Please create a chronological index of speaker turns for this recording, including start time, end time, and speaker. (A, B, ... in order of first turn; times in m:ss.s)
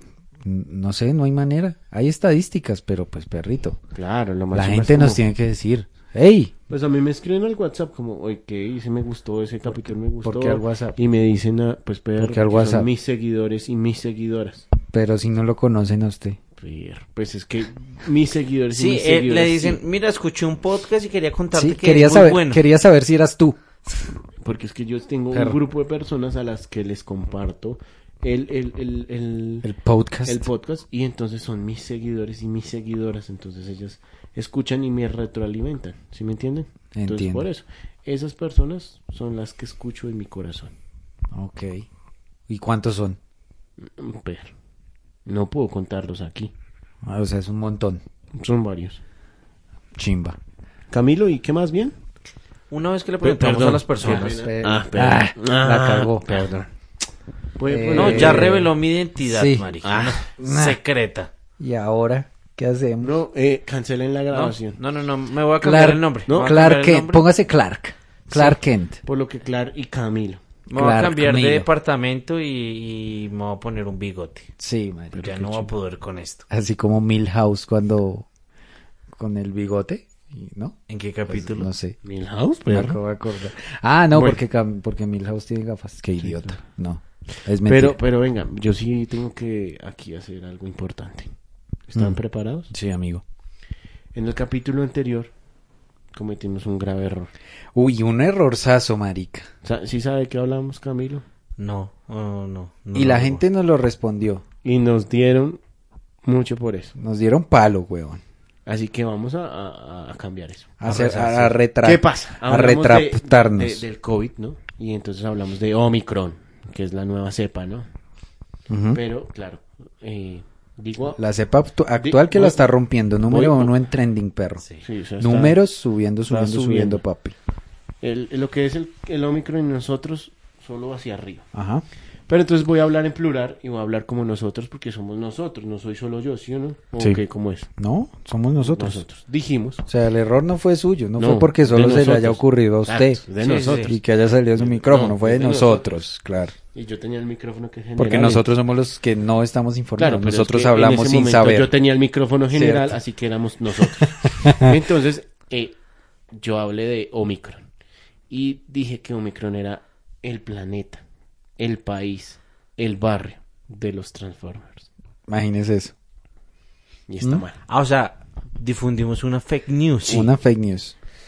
0:00.4-0:03.8 A
0:03.9-0:05.2 B
0:04.5-0:06.5 A
0:06.7-0:14.6 B
0:10.2-0:11.0 A
0:12.2-0:12.9 A
0:14.9-0:16.4 A
0:16.6-0:19.8 B
0:18.7-0:22.6 C
0:21.5-0:23.6 A
0:24.4-0:29.7 B
0:25.3-0:25.6 A
0:29.6-0:30.4 A
0:30.2-0:40.7 B
0:36.9-0:37.5 A
0:41.3-0:41.8 A
0:42.5-0:43.2 A
0:43.8-0:44.5 B
0:45.2-0:46.5 B
0:47.0-0:48.0 A
0:48.4-0:49.0 B
0:50.0-0:50.4 A
0:50.9-0:51.9 B
0:52.7-0:54.4 C
0:53.2-0:56.7 B
0:54.0-0:56.4 A
0:57.6-0:58.7 B
0:57.7-0:58.7 A
0:57.9-1:01.3 C
0:59.2-1:00.8 A
0:59.8-1:00.2 B
1:01.6-1:03.1 A
1:03.0-1:04.8 B
1:04.3-1:07.2 C
1:05.6-1:09.0 A
1:06.3-1:06.5 B
1:08.3-1:10.4 B
1:10.7-1:14.5 C
1:10.7-1:11.6 A
1:14.6-1:15.2 A
1:15.1-1:15.7 B
1:15.2-1:16.4 C
1:16.5-1:18.2 A
1:19.1-1:22.0 A
1:20.9-1:21.7 C
1:22.0-1:23.0 B
1:22.7-1:28.0 A
1:24.1-1:24.4 B
1:26.2-1:26.6 B
1:27.6-1:31.3 B
1:31.9-1:32.7 B
1:32.7-1:33.2 A
1:34.1-1:35.3 B
1:36.1-1:37.3 B
1:37.7-1:39.5 A
1:39.6-1:41.2 B
1:41.6-1:43.4 C
1:42.9-1:44.4 A
1:44.6-1:45.6 B
1:46.2-1:46.9 B
1:47.0-1:48.2 A
1:48.6-1:50.8 B
1:50.8-1:53.8 A
1:50.8-1:51.6 C
1:51.8-1:57.8 B
1:58.7-1:59.0 A
1:58.9-2:01.2 B
2:01.2-2:04.6 A
2:02.0-2:02.7 B
2:03.3-2:03.7 B
2:04.8-2:05.6 B
2:05.2-2:07.3 A
2:06.2-2:07.0 B
2:08.0-2:11.5 B
2:11.5-2:11.8 A
2:12.3-2:17.7 B
2:17.8-2:19.0 A
2:18.6-2:19.8 B
2:19.9-2:26.5 A
2:21.2-2:24.0 B
2:23.4-2:23.9 C
2:24.6-2:25.9 B
2:26.7-2:28.4 B
2:28.0-2:31.7 A
2:30.0-2:35.7 B
2:32.5-2:33.0 A
2:33.8-2:34.8 A
2:36.3-2:37.6 B
2:38.3-2:41.0 B
2:41.6-2:44.9 B
2:45.3-2:45.9 A
2:47.1-2:47.6 B
2:47.7-2:50.3 C
2:50.1-2:50.9 A